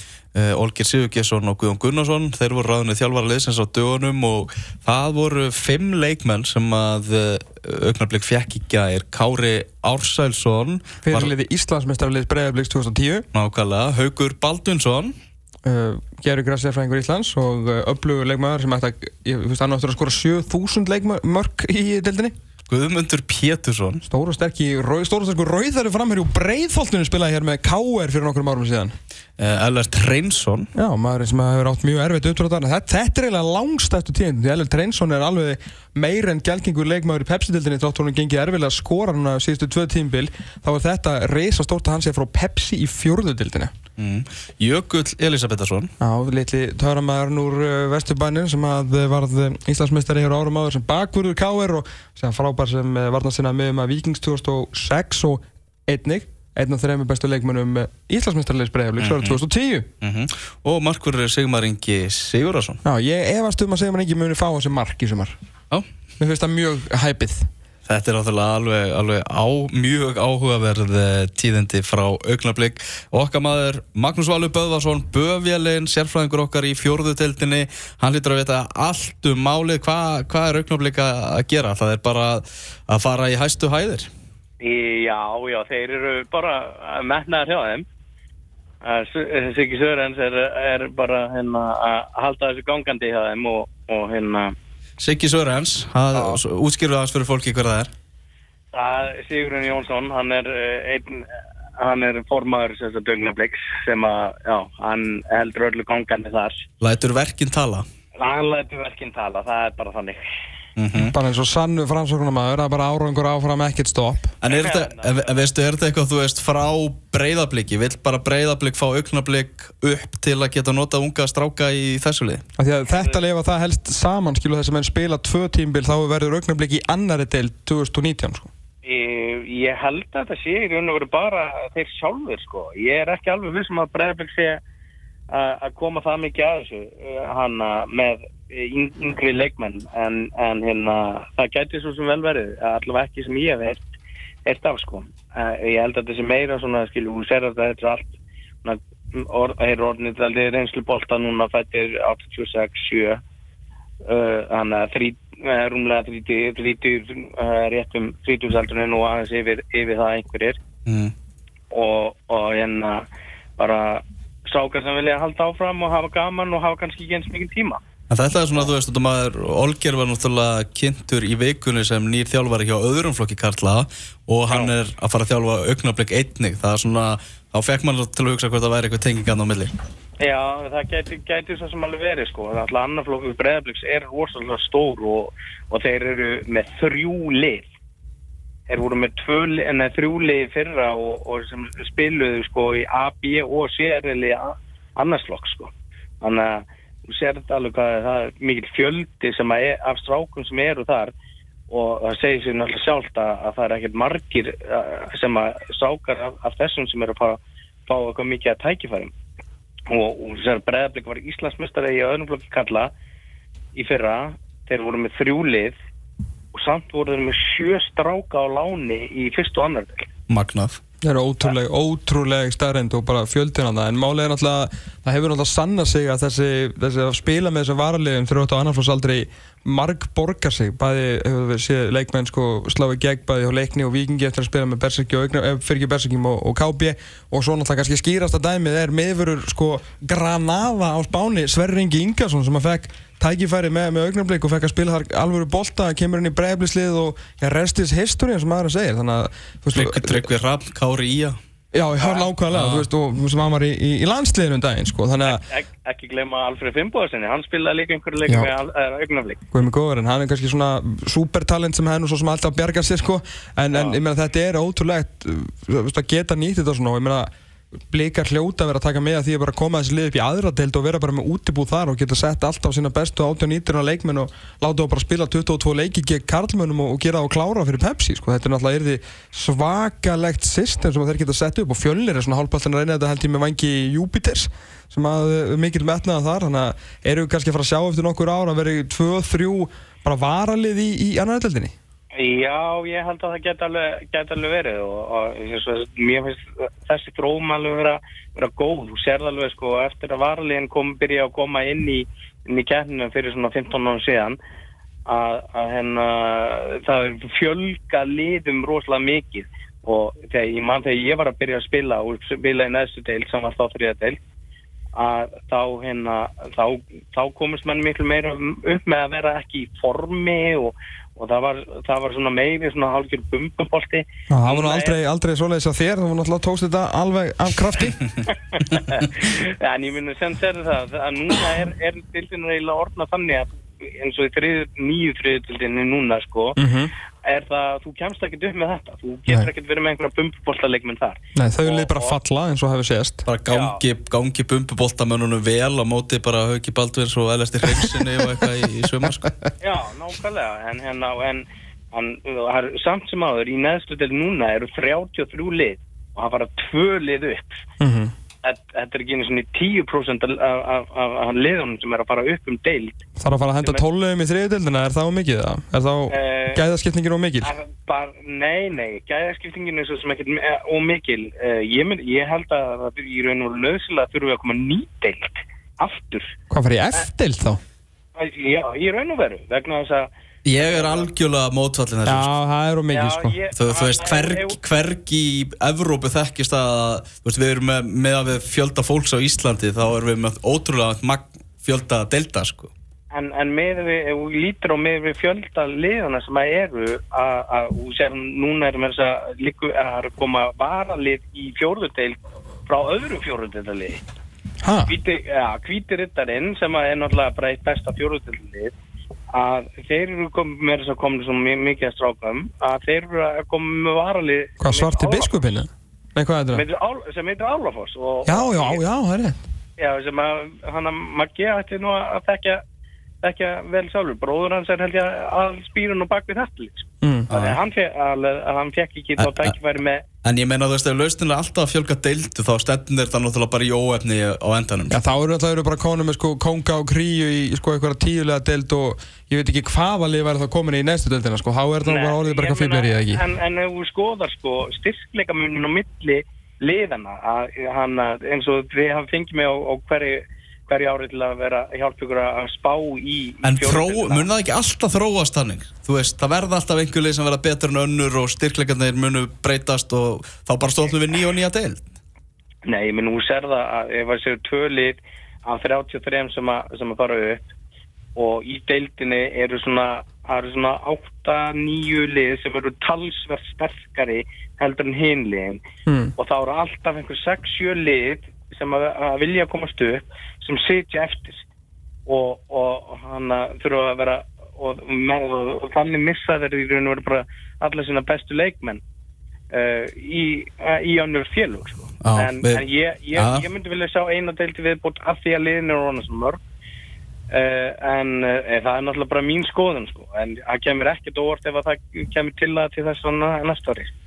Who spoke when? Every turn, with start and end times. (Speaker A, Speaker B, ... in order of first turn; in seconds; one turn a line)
Speaker A: 0.3-11.3
Speaker B: 11.0-13.2
Speaker A: 13.3-15.1
Speaker B: 15.6-22.3
Speaker A: 22.7-24.0
Speaker B: 24.1-28.9
Speaker A: 29.4-30.7
Speaker B: 30.7-43.7
Speaker A: 44.0-45.9
Speaker B: 46.0-59.9
Speaker A: 59.0-59.4
Speaker A: 60.0-62.8
Speaker B: 62.8-65.3
Speaker B: 66.2-67.5
Speaker A: 67.8-84.1
Speaker C: 84.6-87.8
Speaker C: 88.8-94.5
Speaker A: 95.0-97.9
Speaker C: 96.1-96.4
Speaker C: 98.7-106.6
Speaker A: 106.8-107.8
Speaker C: 108.2-110.2
Speaker A: 110.8-111.1
Speaker B: 111.0-114.3
Speaker A: 114.4-122.4
Speaker C: 114.5-115.5
Speaker B: 122.6-128.5
Speaker C: 122.9-123.2
Speaker C: 128.8-134.6
Speaker C: 135.3-143.8
Speaker C: 144.4-153.2
Speaker C: 154.0-160.6
Speaker A: 160.8-161.1
Speaker C: 161.7-167.8
Speaker A: 168.1-179.7
Speaker C: 174.5-174.7
Speaker C: 180.2-187.7
Speaker C: 188.7-201.1
Speaker C: 201.7-209.1
Speaker C: 209.9-212.9
Speaker C: 213.7-215.8
Speaker C: 216.5-220.1
Speaker A: 220.3-220.8
Speaker B: 221.0-250.3
Speaker A: 249.7-251.4
Speaker B: 251.7-255.4
Speaker C: 252.0-252.3
Speaker A: 252.5-252.9
Speaker C: 255.2-259.4
Speaker B: 259.5-267.3
Speaker C: 263.7-264.0
Speaker B: 267.9-291.7
Speaker C: 292.1-304.4
Speaker C: 305.1-314.2
Speaker C: 314.9-325.0
Speaker B: 324.3-328.0
Speaker C: 328.2-336.6
Speaker B: 336.6-336.9
Speaker C: 337.2-342.2
Speaker B: 341.3-343.2
Speaker A: 343.2-349.3
Speaker C: 343.5-343.8
Speaker C: 349.6-357.6
Speaker B: 357.8-358.1
Speaker C: 358.4-363.0
Speaker B: 363.2-367.5
Speaker C: 366.1-366.6
Speaker C: 367.4-376.3
Speaker B: 376.5-377.6
Speaker C: 378.1-381.1
Speaker A: 380.4-382.3
Speaker B: 382.1-383.4
Speaker C: 382.9-384.6
Speaker A: 383.6-392.7
Speaker C: 393.1-404.0
Speaker B: 404.6-404.9
Speaker C: 404.9-408.7
Speaker C: 409.3-415.6
Speaker B: 414.6-416.6
Speaker C: 416.5-418.8
Speaker B: 418.2-419.4
Speaker C: 419.8-422.6
Speaker C: 423.2-430.0
Speaker B: 427.0-427.3
Speaker A: 427.3-427.6
Speaker A: 429.2-429.5
Speaker A: 430.2-435.0
Speaker B: 434.9-443.2
Speaker C: 441.8-454.3
Speaker A: 453.4-461.8
Speaker C: 462.6-467.5
Speaker C: 468.1-475.6
Speaker B: 475.9-476.1
Speaker C: 476.2-481.4
Speaker C: 482.1-488.8
Speaker C: 489.5-496.4
Speaker A: 492.0-492.6
Speaker A: 493.1-493.4
Speaker C: 497.3-503.9